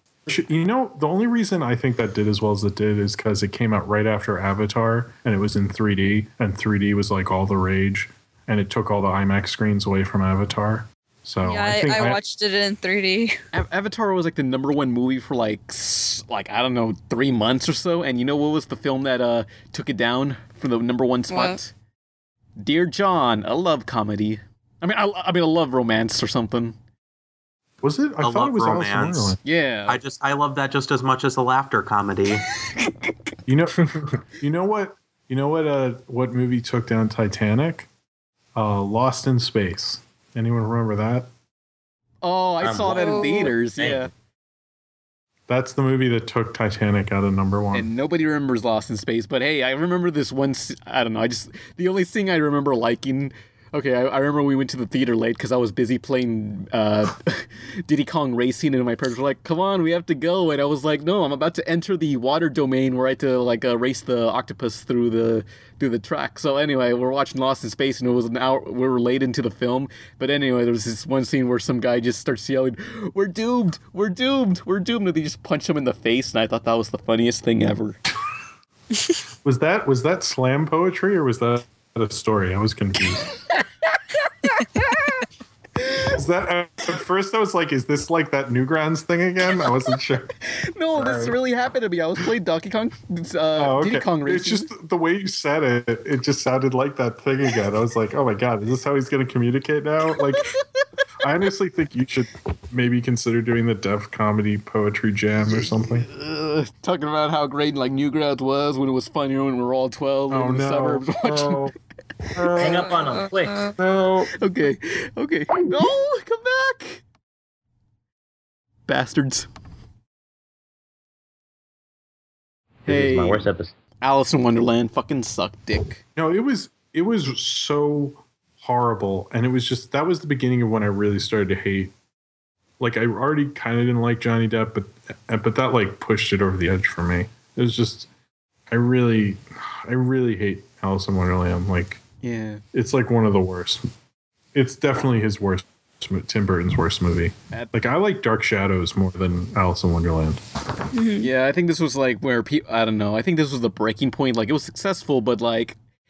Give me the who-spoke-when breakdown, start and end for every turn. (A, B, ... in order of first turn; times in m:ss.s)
0:00.3-0:12.2 A
0:11.4-0:13.4 B
0:13.5-0:21.7 C
0:21.3-0:21.6 B
0:22.6-0:26.8 C
0:27.8-0:29.4 A
0:28.2-0:32.4 D
0:29.4-0:30.0 C
0:33.5-0:37.9 A
0:38.6-0:41.3 A
0:42.2-0:44.1 C
0:42.6-0:43.2 D
0:42.9-0:43.5 B
0:43.8-0:44.0 E
0:45.5-0:47.9 A
0:47.7-1:18.0 C
1:19.4-1:23.2 A
1:24.4-1:25.2 C
1:25.8-1:26.1 C
1:26.1-1:30.3 A
1:30.4-1:34.7 C
1:31.0-1:31.4 A
1:33.6-1:40.5 A
1:41.2-1:46.1 A
1:46.1-1:51.7 C
1:50.3-1:51.8 A
1:52.4-1:53.0 A
1:52.6-1:53.7 E
1:52.6-1:53.7 B
1:53.8-1:54.3 A
1:54.3-1:57.0 C
1:58.9-1:59.5 C
2:02.9-2:03.5 C
2:02.9-2:03.7 E
2:04.0-2:06.0 C
2:06.2-2:11.9 A
2:12.8-2:18.1 A
2:18.7-2:22.0 A
2:22.2-2:22.6 C
2:22.7-2:23.8 A
2:24.5-2:30.4 A
2:27.5-2:27.8 C
2:30.9-2:31.3 B
2:31.2-2:35.8 C